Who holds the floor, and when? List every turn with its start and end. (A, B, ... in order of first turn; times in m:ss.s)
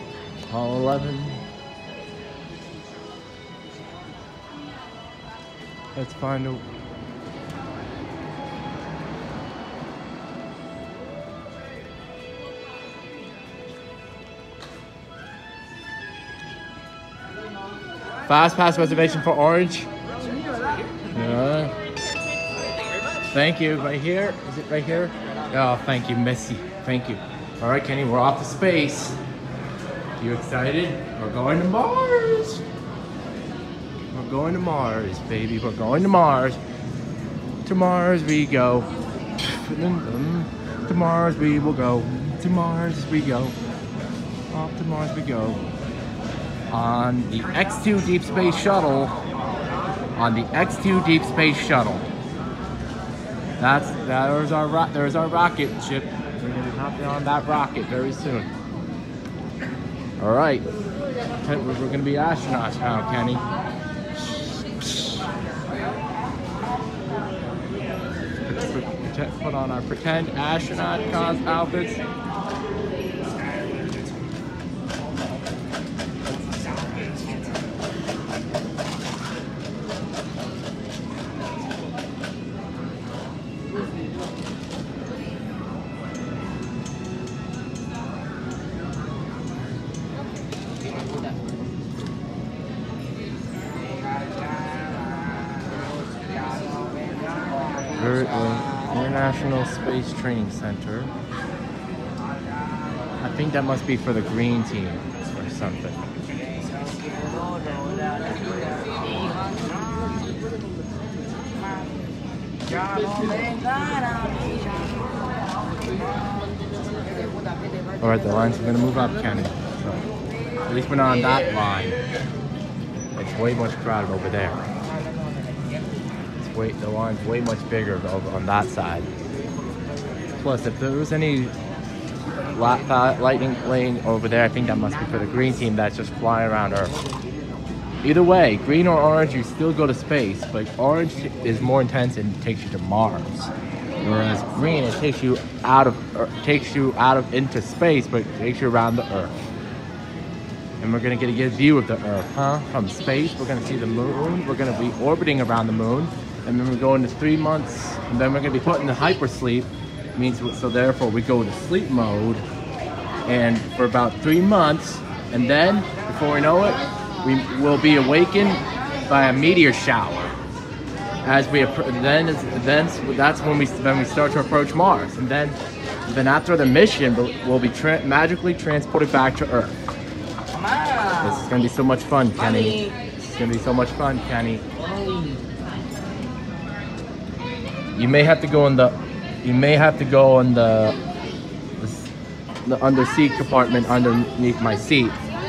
0:00.5-0:01.4 A
0:05.9-0:06.6 A
0:18.3-0:19.9 A
0:21.1-0:21.8 A
0:23.3-0:29.2 A
0:30.2-0:32.6 A
0:34.1-0:36.6 A
0:37.6-0:38.9 A
0:39.4-0:43.5 A
0:44.5-0:45.6 A
0:46.7-0:49.1 A
0:50.2-0:52.1 A
0:53.6-0:58.5 A
1:00.2-1:00.6 A
1:01.4-1:03.4 A
1:04.8-1:05.2 A
1:08.5-1:12.0 A
1:38.0-1:41.1 A
1:43.2-1:46.0 A
1:58.0-2:00.0 A
2:00.7-2:01.9 A
2:03.2-2:04.6 A
2:06.4-2:09.1 A
2:10.4-2:11.5 A
2:12.5-2:17.0 A
2:18.0-2:29.4 A
2:30.8-2:42.4 A
2:43.2-2:50.3 A
2:51.2-2:55.6 A
2:56.1-2:59.8 A
3:01.2-3:04.6 A
3:07.9-3:11.0 A
3:11.8-3:12.1 A
3:12.6-3:15.2 A